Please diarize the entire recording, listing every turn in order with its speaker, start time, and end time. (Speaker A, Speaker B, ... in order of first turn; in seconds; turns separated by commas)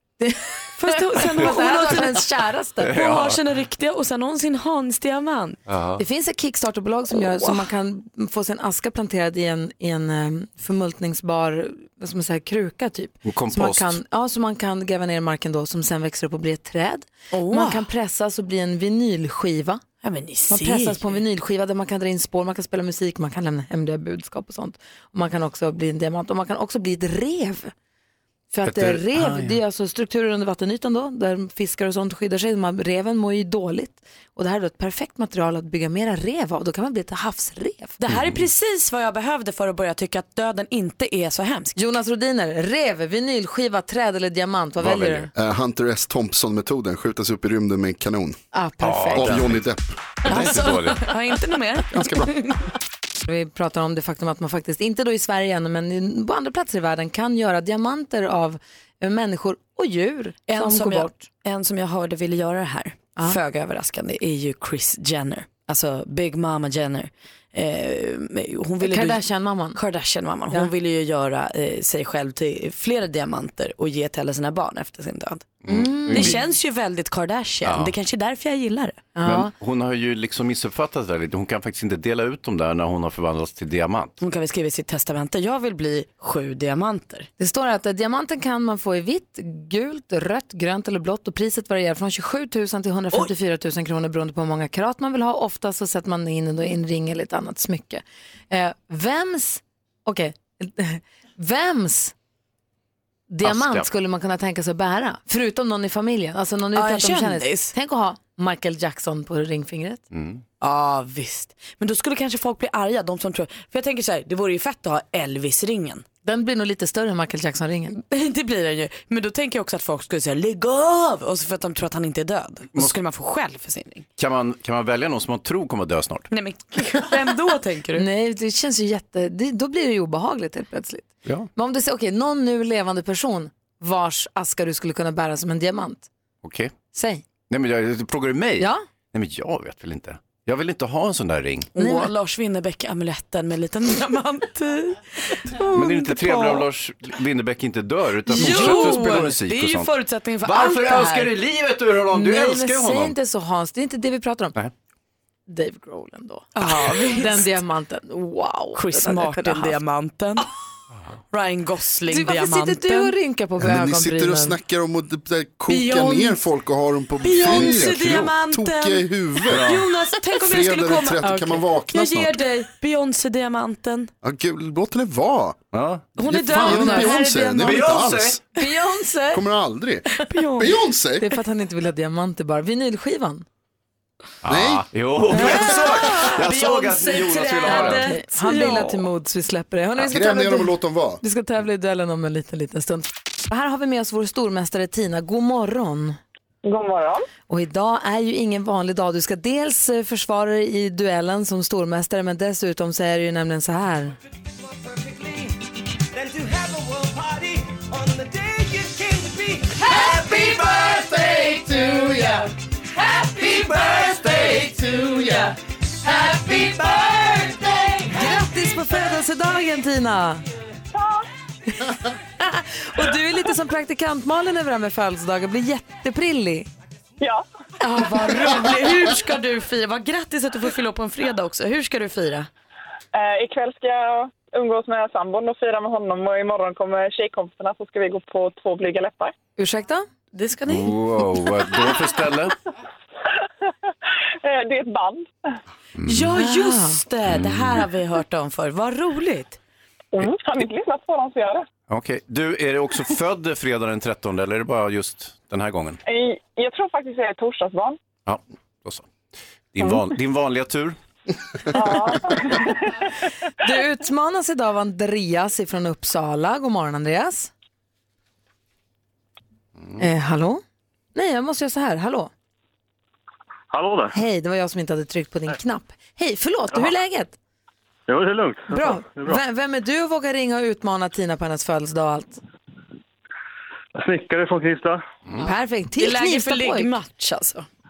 Speaker A: 0.2-3.0, Speaker B: 0.8-2.2, Speaker C: 2.8-3.4, Speaker B: 2.9-5.6, Speaker C: 5.7-6.0, Speaker A: 6.0-19.8, Speaker B: 7.2-7.7, Speaker C: 13.2-14.0, Speaker B: 17.3-17.9, Speaker B: 20.0-21.2, Speaker A: 20.5-27.7, Speaker A: 28.5-37.9, Speaker C: 28.6-29.6, Speaker B: 38.0-41.8, Speaker C: 38.1-38.5, Speaker A: 41.8-45.3, Speaker C: 44.8-45.3, Speaker D: 45.3-48.4, Speaker A: 48.5-49.4, Speaker C: 48.8-49.6, Speaker D: 49.1-49.8, Speaker B: 50.2-52.5, Speaker C: 50.3-51.0, Speaker D: 51.9-52.3, Speaker A: 53.2-61.2, Speaker B: 60.5-69.2, Speaker A: 68.8-69.8, Speaker B: 69.8-79.0, Speaker C: 75.6-76.4, Speaker A: 75.7-76.4, Speaker C: 77.6-77.9, Speaker A: 79.2-79.5, Speaker C: 79.2-84.1, Speaker B: 84.2-87.3, Speaker A: 87.4-102.1, Speaker A: 103.3-110.0, Speaker C: 103.4-103.9, Speaker B: 106.7-107.7, Speaker C: 110.1-110.4, Speaker B: 110.6-116.0, Speaker A: 116.2-118.0, Speaker B: 118.0-124.0, Speaker C: 124.2-126.3, Speaker B: 126.3-128.0, Speaker A: 128.0-136.1, Speaker C: 136.4-136.8, Speaker A: 136.9-137.2, Speaker C: 137.5-141.7, Speaker B: 141.7-146.7, Speaker A: 141.8-142.1, Speaker C: 145.7-149.9, Speaker A: 148.3-149.2, Speaker B: 148.3-151.3, Speaker C: 150.4-153.1, Speaker A: 152.1-154.5, Speaker A: 155.5-159.8, Speaker B: 156.6-157.5, Speaker B: 158.8-160.5, Speaker B: 161.3-163.1, Speaker A: 162.1-164.6, Speaker D: 163.6-169.8, Speaker B: 165.7-166.3, Speaker A: 165.8-166.1, Speaker B: 167.2-174.1, Speaker C: 169.5-169.8, Speaker D: 170.3-172.4, Speaker A: 171.2-171.6, Speaker D: 174.2-175.6, Speaker C: 175.7-176.0, Speaker B: 176.2-178.0, Speaker D: 176.2-178.4, Speaker A: 176.6-177.2, Speaker C: 177.6-178.4, Speaker A: 178.6-179.4, Speaker D: 179.3-181.3, Speaker B: 180.2-180.7, Speaker A: 181.2-183.4, Speaker C: 184.4-188.1, Speaker D: 184.5-184.8, Speaker A: 185.3-186.3, Speaker B: 185.3-189.1, Speaker A: 187.6-196.2, Speaker D: 190.0-191.2, Speaker E: 196.6-197.2, Speaker A: 197.5-204.1, Speaker F: 204.6-218.4, Speaker A: 218.1-220.4, Speaker E: 220.9-221.2, Speaker A: 222.4-226.7, Speaker E: 227.2-227.4, Speaker A: 227.8-228.9, Speaker B: 227.8-232.5, Speaker E: 233.1-239.3, Speaker A: 239.6-240.1, Speaker B: 240.3-240.9, Speaker C: 240.7-242.5, Speaker E: 244.4-245.3, Speaker C: 246.0-246.3, Speaker B: 246.1-249.6, Speaker A: 246.3-247.0, Speaker C: 247.3-247.8, Speaker E: 250.1-251.7, Speaker C: 251.9-256.0, Speaker E: 256.1-258.0, Speaker C: 258.2-259.1, Speaker C: 259.7-261.0, Speaker E: 261.7-262.6, Speaker A: 263.6-267.5, Speaker A: 270.0-270.6, Speaker A: 271.1-272.3, Speaker G: 273.7-274.1, Speaker A: 274.1-277.3, Speaker G: 278.1-279.4, Speaker A: 278.7-282.4, Speaker G: 284.0-285.0, Speaker A: 285.4-286.9, Speaker B: 286.0-287.7